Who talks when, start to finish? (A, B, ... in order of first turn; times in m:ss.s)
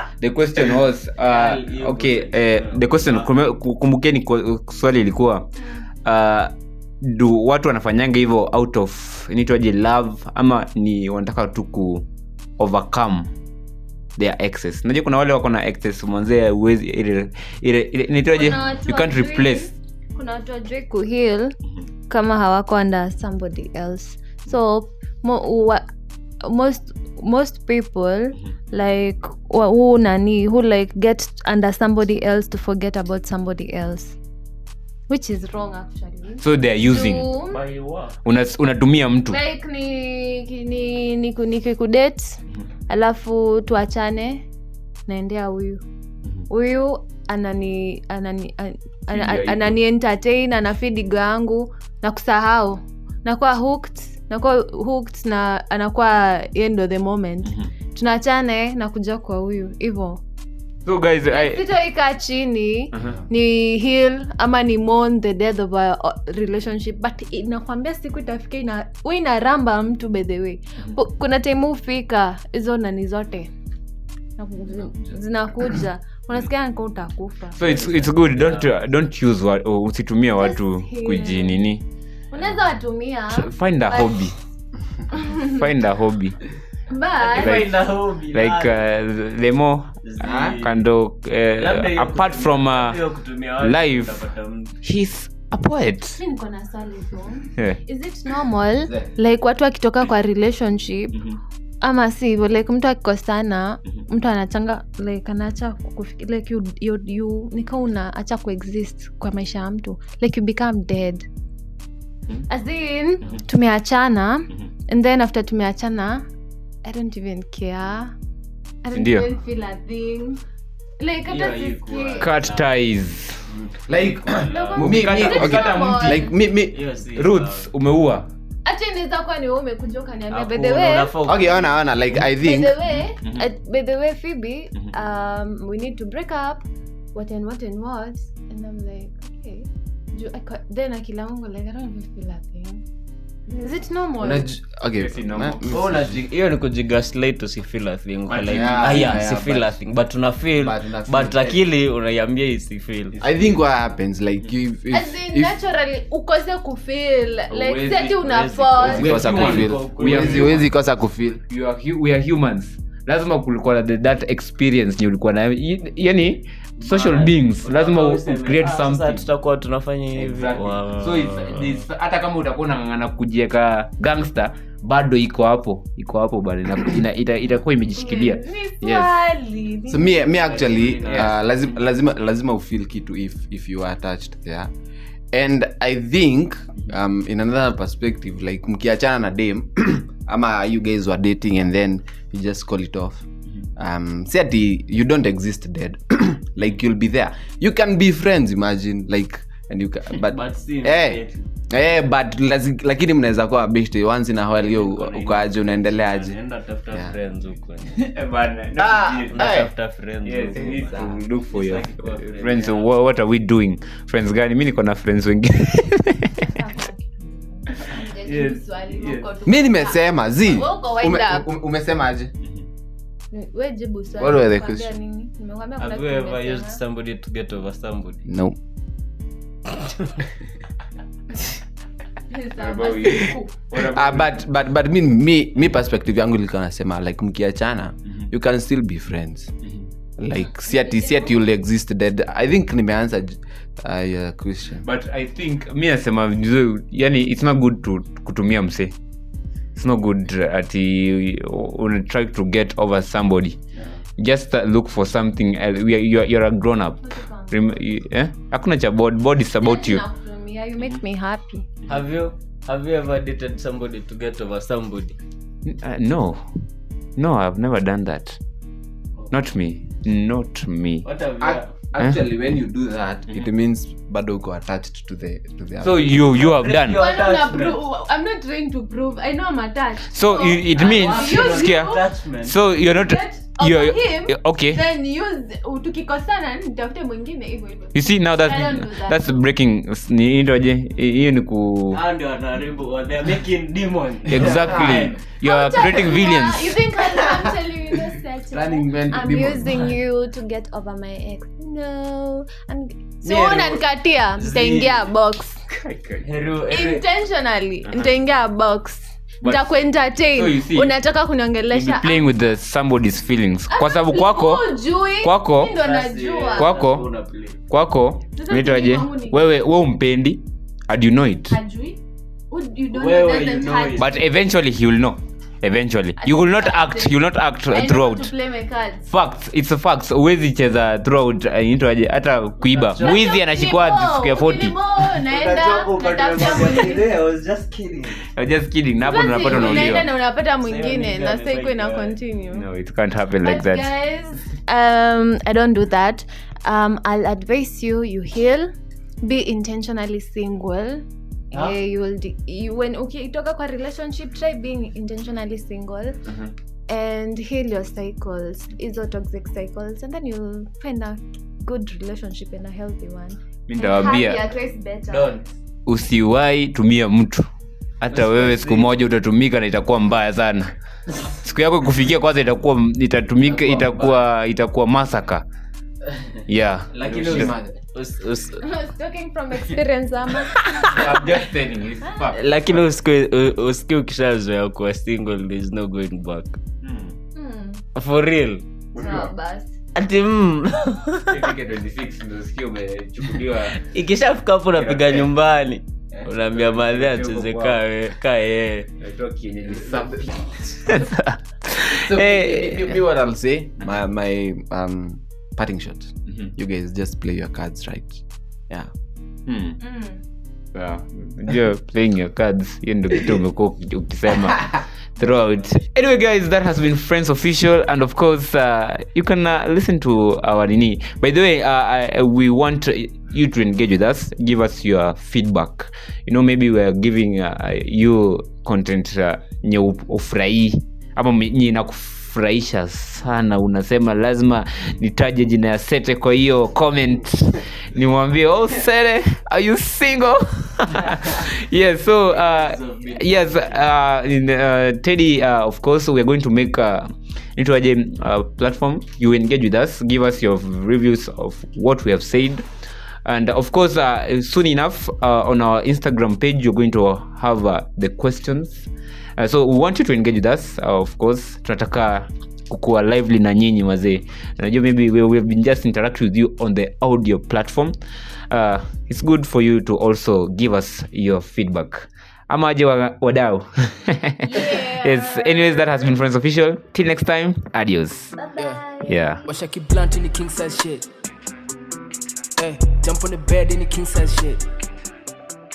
0:00.2-0:05.5 A
0:01.2-0:03.3 B
0:06.0-0:12.0 A
0:12.6-0:13.3 A
0:14.2-0:19.7 A
0:18.3-0:21.6 C
0:22.1-0:25.8 C
0:26.4-0:34.2 C
0:35.1-0:37.6 C
0:36.4-0:37.2 A
0:37.5-0:38.2 B
0:38.2-0:39.4 A
0:39.3-0:44.4 C
0:45.1-0:45.8 C
0:46.5-1:00.2 C
0:49.1-0:49.7 A
1:00.8-1:01.6 A
1:01.3-1:13.5 C
1:14.4-1:17.6 C
1:17.6-1:21.8 A
1:17.6-1:18.7 B
1:20.4-1:21.6 C
1:22.3-1:24.3 C
1:23.3-1:24.3 A
1:25.1-1:25.6 C
1:25.3-1:26.4 A
1:26.9-1:27.7 C
1:27.2-1:28.8 B
1:27.3-1:27.8 A
1:28.3-1:29.9 A
1:30.0-1:30.8 B
1:30.2-1:30.6 D
1:30.5-1:33.0 A
1:31.6-1:34.7 B
1:33.6-1:34.2 A
1:34.8-1:36.2 A
1:36.2-1:41.2 C
1:38.8-1:39.1 D
1:41.8-1:51.2 C
1:52.5-1:56.2 C
1:56.8-1:58.1 C
1:58.8-2:00.4 C
1:58.9-1:59.3 A
2:01.0-2:02.3 C
2:01.2-2:02.7 B
2:02.2-2:03.4 A
2:03.5-2:06.8 D
2:03.9-2:05.0 B
2:04.5-2:06.3 C
2:04.8-2:06.3 A
2:06.7-2:07.7 B
2:07.2-2:08.3 A
2:08.6-2:11.1 C
2:10.3-2:11.8 B
2:11.2-2:12.8 D
2:12.3-2:22.8 C
2:23.5-2:24.5 C
2:24.2-2:26.1 D
2:25.0-2:25.8 A
2:25.7-2:33.2 B
2:28.3-2:29.2 A
2:28.5-2:29.8 D
2:30.6-2:31.6 D
2:33.2-2:35.5 D
2:34.9-2:39.1 C
2:37.5-2:38.1 A
2:37.7-2:40.6 B
2:38.8-2:40.7 A
2:38.8-2:41.4 D
2:41.5-2:49.2 A
2:46.8-2:51.8 B
2:50.2-2:59.1 A
2:58.0-3:00.3 C
2:59.9-3:04.7 D
3:00.3-3:01.4 B
3:05.3-3:13.2 D
3:13.8-3:26.4 D
3:20.2-3:21.5 B
3:24.5-3:28.0 B
3:27.9-3:29.7 A
3:28.8-3:29.7 D
3:29.3-3:32.9 B
3:30.2-3:36.5 A
3:30.6-3:31.2 D
3:36.5-3:41.4 C
3:39.4-3:42.3 D
3:43.3-3:46.8 C
3:44.2-3:44.9 D
3:45.8-3:48.2 B
3:48.2-3:48.6 D
3:49.7-3:50.1 B
3:52.3-3:53.5 C
3:52.6-3:54.4 A
3:53.7-3:59.5 D
4:00.2-4:04.8 D
4:00.6-4:01.4 C
4:04.8-4:08.9 A
4:09.7-4:13.6 A
4:14.2-4:20.0 A
4:17.0-4:17.8 C
4:19.6-4:21.6 C
4:21.9-4:25.2 B
4:25.6-4:26.4 A
4:27.2-4:28.4 A
4:29.3-4:31.1 A
4:31.0-4:31.7 B
4:31.4-4:36.3 D
4:35.8-4:37.0 A
4:36.3-4:37.8 B
4:36.9-4:42.0 C
4:40.1-4:44.8 A
4:40.7-4:42.6 B
4:43.0-4:49.4 C
4:47.9-4:52.0 A
4:51.9-4:55.2 B
4:54.3-4:56.8 A
4:54.5-4:55.0 D
4:55.4-5:05.6 C
4:58.5-4:59.8 D
5:03.2-5:03.8 B
5:04.4-5:05.1 B
5:05.8-5:06.2 A
5:06.2-5:07.0 B
5:06.7-5:12.3 C
5:10.3-5:10.9 A
5:11.7-5:14.7 A
5:13.7-5:16.7 C
5:15.2-5:15.8 A
5:15.8-5:17.6 B
5:16.6-5:17.0 A
5:17.7-5:21.6 A
5:18.4-5:19.4 C
5:21.5-5:22.0 C
5:22.5-5:24.1 C
5:22.9-5:24.1 B
5:24.0-5:28.3 A
5:26.2-5:29.1 C
5:29.1-5:34.7 A
5:32.6-5:33.2 B
5:33.0-5:37.1 C
5:35.1-5:38.2 B
5:38.3-5:40.1 A
5:39.0-5:42.6 C
5:39.4-5:40.1 B
5:40.6-5:42.2 B
5:42.5-5:43.9 A
5:43.4-5:48.7 C
5:49.2-5:56.2 C
5:56.9-6:05.4 C
6:03.7-6:04.4 A
6:05.1-6:05.4 B
6:05.8-6:07.5 A
6:08.0-6:10.7 A
6:08.1-6:08.9 B
6:11.2-6:15.4 A
6:13.5-6:14.1 B
6:16.5-6:17.5 A
6:16.9-6:18.6 B
6:17.0-6:17.7 D
6:18.6-6:21.2 C
6:20.8-6:22.4 A
6:22.3-6:26.6 B
6:26.8-6:27.2 A
6:27.3-6:27.8 C
6:27.9-6:28.6 B
6:28.9-6:29.2 A
6:28.9-6:29.7 C
6:29.9-6:31.4 B
6:31.3-6:33.8 A
6:33.8-6:38.9 B
6:34.8-6:35.2 A
6:36.2-6:37.8 A
6:39.0-6:43.0 A
6:39.8-6:40.2 D
6:42.0-6:48.9 D
6:49.5-6:49.8 A
6:49.8-6:50.2 C
6:50.7-7:32.6 A
7:21.0-7:21.3 B
7:22.2-7:23.9 B
7:33.2-7:48.0 A
7:48.5-7:58.4 A
7:54.4-7:56.1 C
7:58.4-7:59.5 C
7:58.6-7:58.8 E
7:59.0-7:59.4 A
7:59.4-8:01.0 E
8:02.6-8:04.6 E